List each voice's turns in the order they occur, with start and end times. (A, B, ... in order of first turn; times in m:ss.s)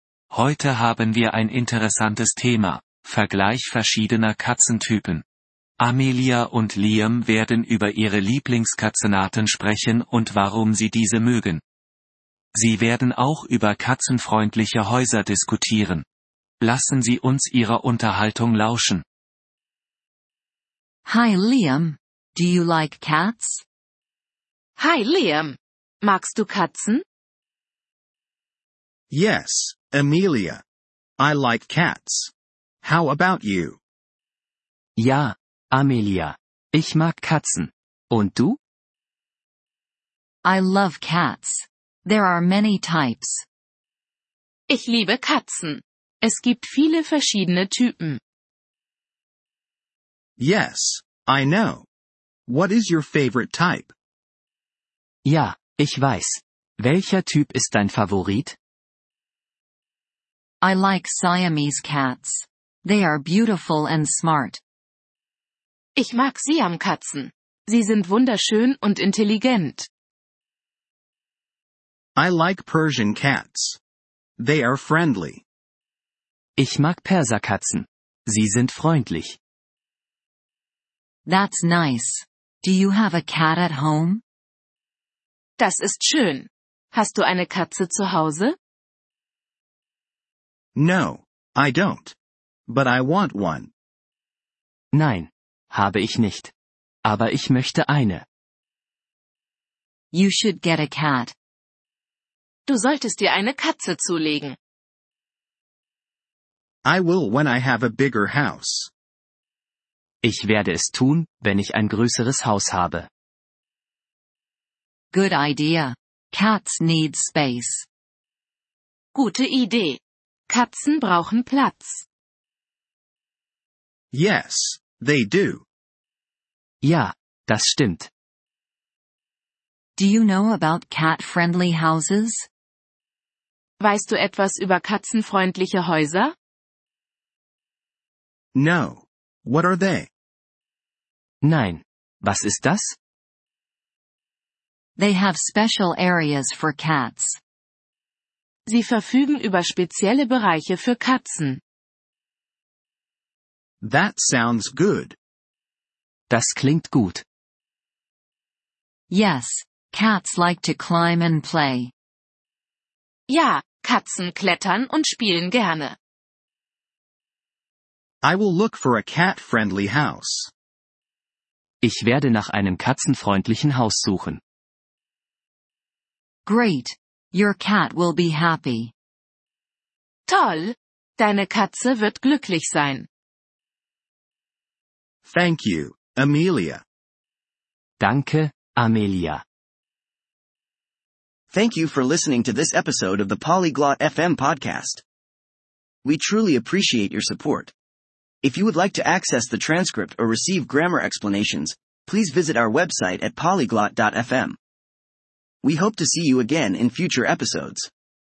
0:00.3-0:05.2 A
0:05.8-0:11.6 A
0:12.5-0:16.1 A
0:16.6-0:19.0 A
0:21.1-0:22.8 A
0:23.3-0:23.6 A
0:24.8-0:27.0 B
0:29.1-0:30.6 C
0:31.2-0:32.3 C
0:32.8-0:33.8 C
0:35.0-0:38.6 D
0:37.2-0:37.6 E
0:40.8-0:41.2 E
0:42.9-0:43.4 E
0:44.7-0:48.2 B
0:50.4-0:51.8 C
0:52.5-0:53.9 C
0:55.2-0:58.5 D
0:55.6-0:56.4 E
0:57.4-0:58.5 E
1:00.6-1:02.4 E
1:03.0-1:04.5 E
1:06.0-1:09.9 B
1:12.2-1:13.8 C
1:14.4-1:15.4 C
1:16.6-1:19.3 D
1:21.3-1:21.7 E
1:25.6-1:28.6 B
1:30.8-1:32.2 C
1:32.7-1:33.7 C
1:34.9-1:36.5 D
1:35.9-1:36.5 E
1:37.1-1:38.2 D
1:37.2-1:38.2 E
1:40.1-1:41.3 E
1:42.7-1:44.6 B
1:46.8-1:48.9 C
1:50.2-1:53.1 D
1:50.9-1:52.7 E
1:55.1-1:57.8 E
1:59.1-2:02.0 B
2:04.1-2:05.6 C
2:06.8-2:08.1 D
2:07.5-2:08.1 E
2:10.7-2:11.4 E
2:13.8-2:16.3 B
2:18.6-2:20.1 C
2:21.4-2:22.8 D
2:22.4-2:22.9 E
2:25.2-2:27.1 E
2:28.7-2:31.6 B
2:33.8-2:35.2 C
2:36.3-2:37.2 D
2:39.7-2:40.3 A
2:40.4-2:40.7 E
2:41.5-2:41.9 E
2:43.3-2:46.0 B
2:48.2-2:50.5 C
2:51.8-2:54.4 D
2:52.3-2:53.2 E
2:53.8-2:54.4 E
2:56.8-2:58.9 E
3:00.3-3:03.1 B
3:05.2-3:06.8 C
3:08.0-3:09.4 E
3:08.0-3:09.4 D
3:11.5-3:15.0 F
3:16.0-3:17.7 F
3:18.4-3:24.6 F
3:25.6-3:27.9 F